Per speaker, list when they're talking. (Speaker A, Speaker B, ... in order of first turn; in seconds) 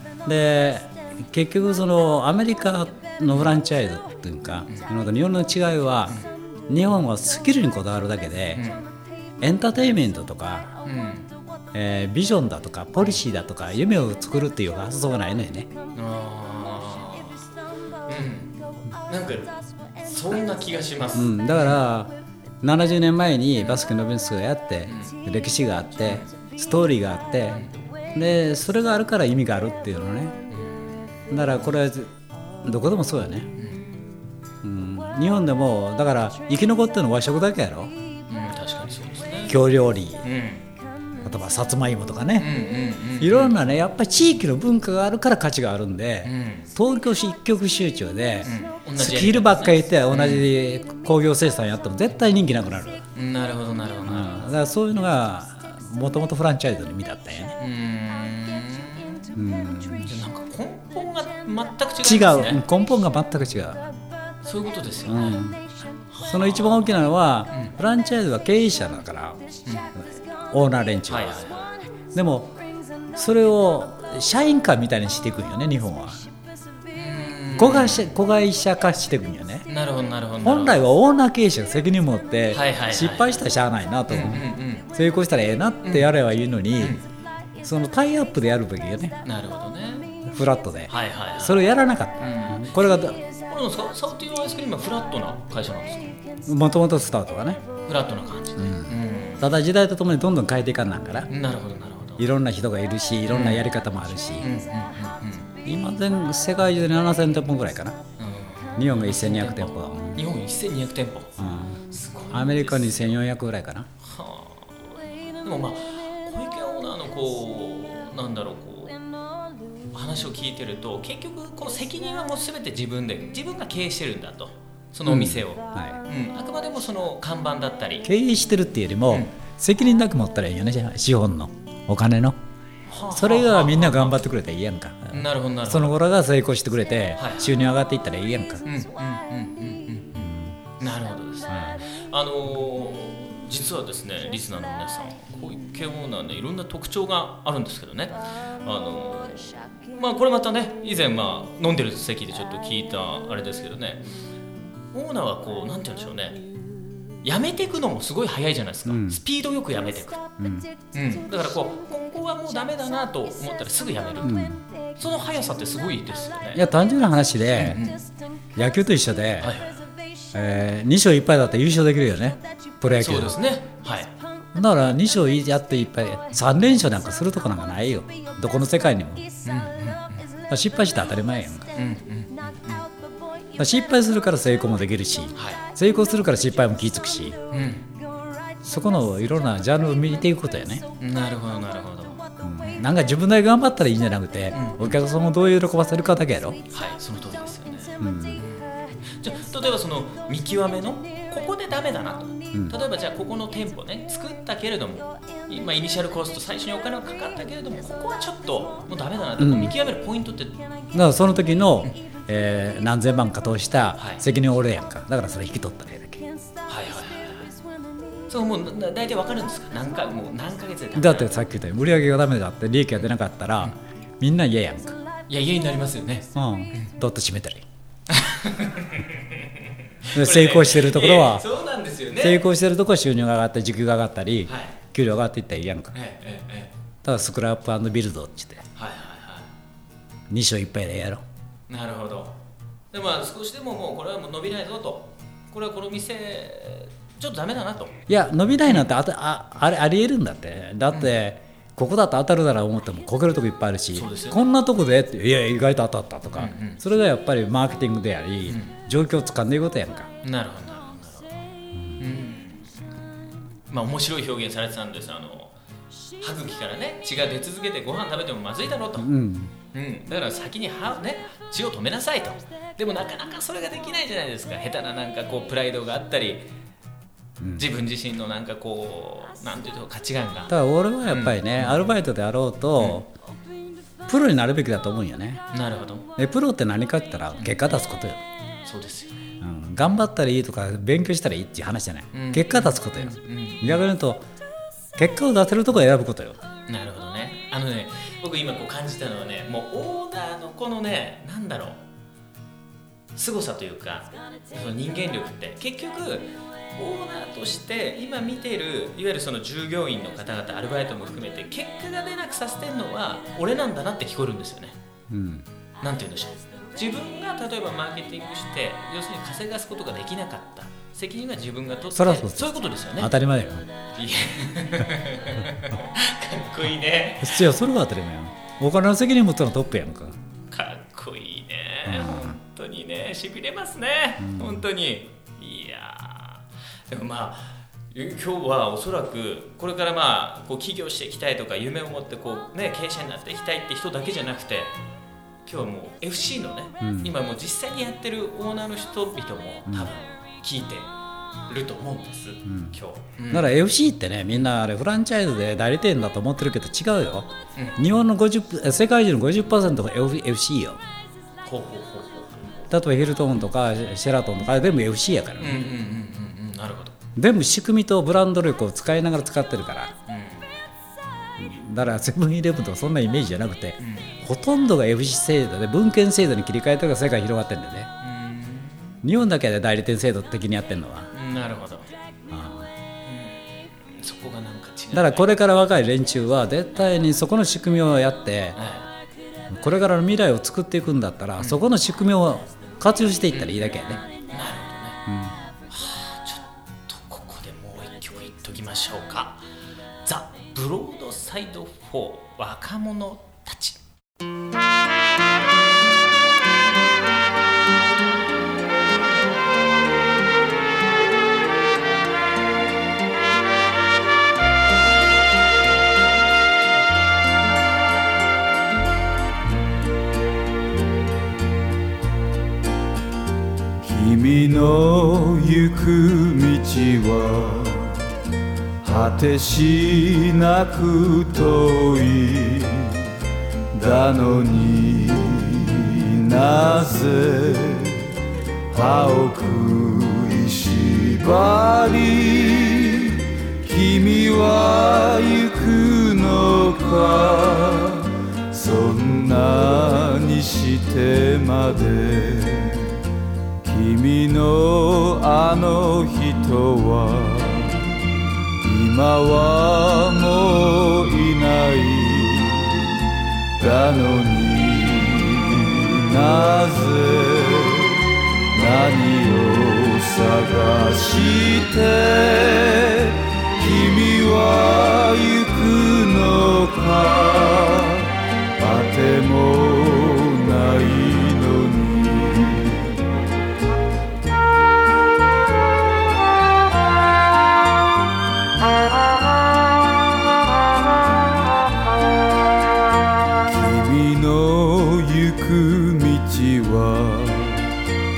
Speaker A: 0.2-6.2, 6.7-8.6, 9.4-10.8, 11.7-15.7, 21.1-30.4, 31.3-33.5, 34.6-38.0, 39.5-40.3, 41.2-42.5, 43.2-53.0, 54.0-57.6, 59.3-60.1, 62.0-63.9, 65.1-65.7, 66.3-69.4, 70.0-71.5, 72.1-72.6, 73.1-76.2, 77.6-79.7, 80.4-87.0, 87.6-89.2, 90.2-93.2, 96.5-97.7, 98.6-101.3, 102.2-104.5, 105.7-108.0, 108.8-110.2, 111.4-113.9, 125.0-126.0, 128.0-132.4, 133.1-138.6, 140.2-140.5, 158.9-159.2, 160.4-160.7, 164.2-164.6, 166.5-167.8, 168.6-169.6, 170.3-173.4, 174.5-179.3, 180.5-181.7, 183.6-187.4, 188.6-190.8, 192.4-196.6, 198.0-198.4, 202.5-202.8, 209.4-209.7, 210.9-216.2, 220.9-225.0, 226.3-227.7, 230.1-231.5, 232.2-235.9, 237.0-238.7, 240.3-241.2, 248.1-260.1, 261.8-262.0, 269.0-269.5, 277.4-277.7, 280.5-283.1, 284.1-285.4, 286.2-288.2, 289.4-294.2, 295.0-296.4, 315.1-315.4, 321.9-323.7, 327.2-330.2, 331.9-332.4, 334.2-334.6, 346.8-347.1, 352.5-352.7, 353.3-360.8, 362.7-365.6, 367.2-369.9, 371.4-377.9, 379.0-381.1, 382.3-382.7, 384.9-388.6, 389.5-394.0, 395.1-395.4
Speaker B: 8.5-8.8, 10.8-11.3, 15.9-17.5, 18.1-21.8, 24.9-25.1, 27.5-27.8, 30.5-30.9, 33.6-33.9, 38.3-39.6, 40.2-40.7, 42.4-43.6, 46.2-46.7, 48.4-50.5, 53.1-54.5, 57.6-59.3, 60.1-62.6, 64.4-65.4, 66.1-67.0, 69.7-69.9, 71.1-71.8, 76.9-78.1, 79.7-80.8, 82.5-83.4, 84.1-84.9, 85.8-86.1, 89.2-90.2, 90.9-91.6, 92.2-92.8, 93.3-96.2, 97.8-99.5, 101.3-102.2, 103.3-103.7, 104.4-105.6, 108.2-111.4, 111.9-113.2, 114.0-119.0, 119.9-128.1, 129.1-129.3, 132.9-134.2, 135.1-136.0, 137.2-137.5, 138.6-154.1, 154.9-156.4, 157.2-160.2, 160.9-164.4, 165.0-166.7, 167.6-168.0, 169.4-169.9, 172.8-174.2, 179.4-180.3, 181.8-182.9, 185.3-185.6, 187.5-187.9, 191.0-192.8, 194.5-195.0, 196.7-210.7, 214.0-214.2, 216.7-217.5, 218.3-221.4, 225.3-226.9, 228.1-232.4, 234.5-234.8, 235.9-236.7, 238.8-239.5, 241.7-242.4, 242.9-248.0, 253.9-254.4, 256.4-256.8, 258.5-258.7, 260.2-262.9, 263.7-265.6, 266.2-269.1, 269.7-276.5, 277.6-280.5, 281.1-281.8, 285.5-286.1, 288.6-289.3, 292.1-293.8, 296.7-301.8, 303.1-314.8, 315.8-323.1, 323.9-327.4, 330.5-344.8, 345.4-350.9, 351.5-353.6, 361.4-362.7, 365.4-367.0, 370.1-370.5, 373.8-374.1, 378.0-379.0, 381.1-381.9, 383.1-385.3, 388.6-388.9, 393.3-395.0, 395.7-399.5, 400.0-403.8
Speaker C: 423.8-428.0, 428.8-433.0, 433.7-438.1, 438.7-452.9, 453.6-457.9, 458.6-463.0, 463.6-483.0, 493.5-497.7